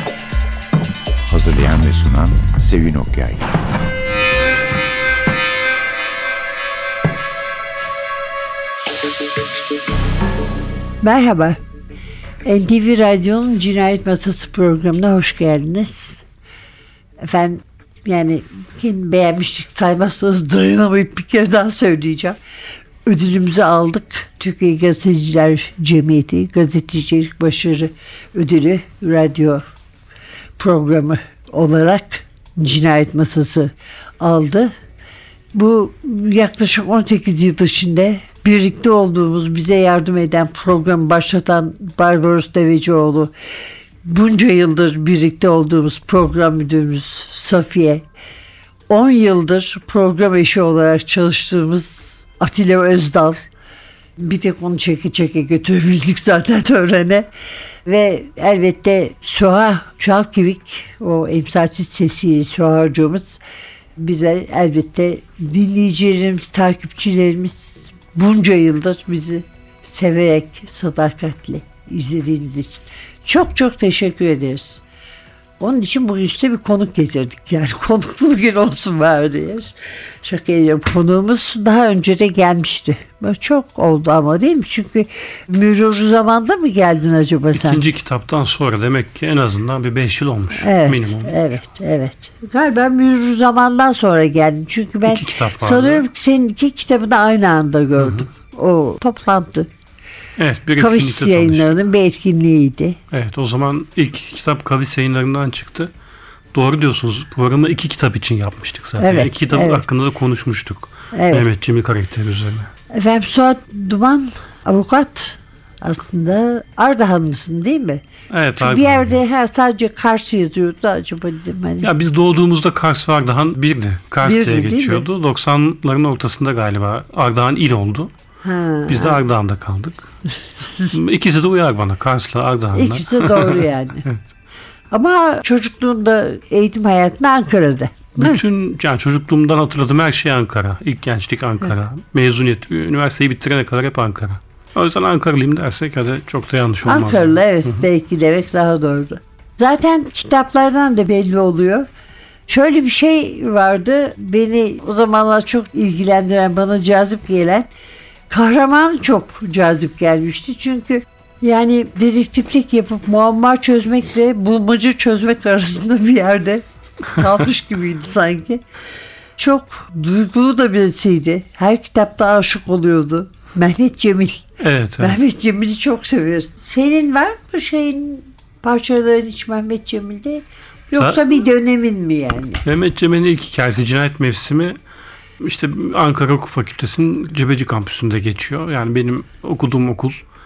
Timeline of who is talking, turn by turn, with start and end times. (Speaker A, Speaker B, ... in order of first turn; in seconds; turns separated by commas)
Speaker A: 1.3-3.5, Speaker B: 11.0-11.6, Speaker B: 12.4-16.2, Speaker B: 17.2-22.4, Speaker B: 23.0-29.6, Speaker B: 30.6-34.7, Speaker B: 35.5-43.3, Speaker B: 44.0-48.1, Speaker B: 48.9-53.5, Speaker B: 54.2-57.3, Speaker B: 57.8-63.4, Speaker B: 64.0-74.8, Speaker B: 75.6-87.8, Speaker C: 87.5-91.4, Speaker B: 90.6-99.7, Speaker C: 95.1-96.0, Speaker C: 98.0-98.3, Speaker C: 100.4-101.7, Speaker B: 100.8-103.0, Speaker C: 103.1-105.9, Speaker C: 106.5-112.7, Speaker B: 109.0-109.8, Speaker B: 111.1-111.5, Speaker B: 112.9-118.0, Speaker C: 118.3-119.2, Speaker B: 118.6-121.9, Speaker C: 121.8-128.1, Speaker B: 124.2-125.1, Speaker B: 128.4-129.2, Speaker C: 128.9-130.1, Speaker C: 130.9-134.2, Speaker B: 132.8-134.0, Speaker B: 134.9-138.4, Speaker C: 138.2-147.8, Speaker B: 146.8-151.9, Speaker B: 152.5-157.7, Speaker B: 158.3-168.6, Speaker B: 169.4-174.5, Speaker C: 174.6-175.2, Speaker B: 175.0-182.6, Speaker C: 182.7-184.8, Speaker C: 185.4-190.2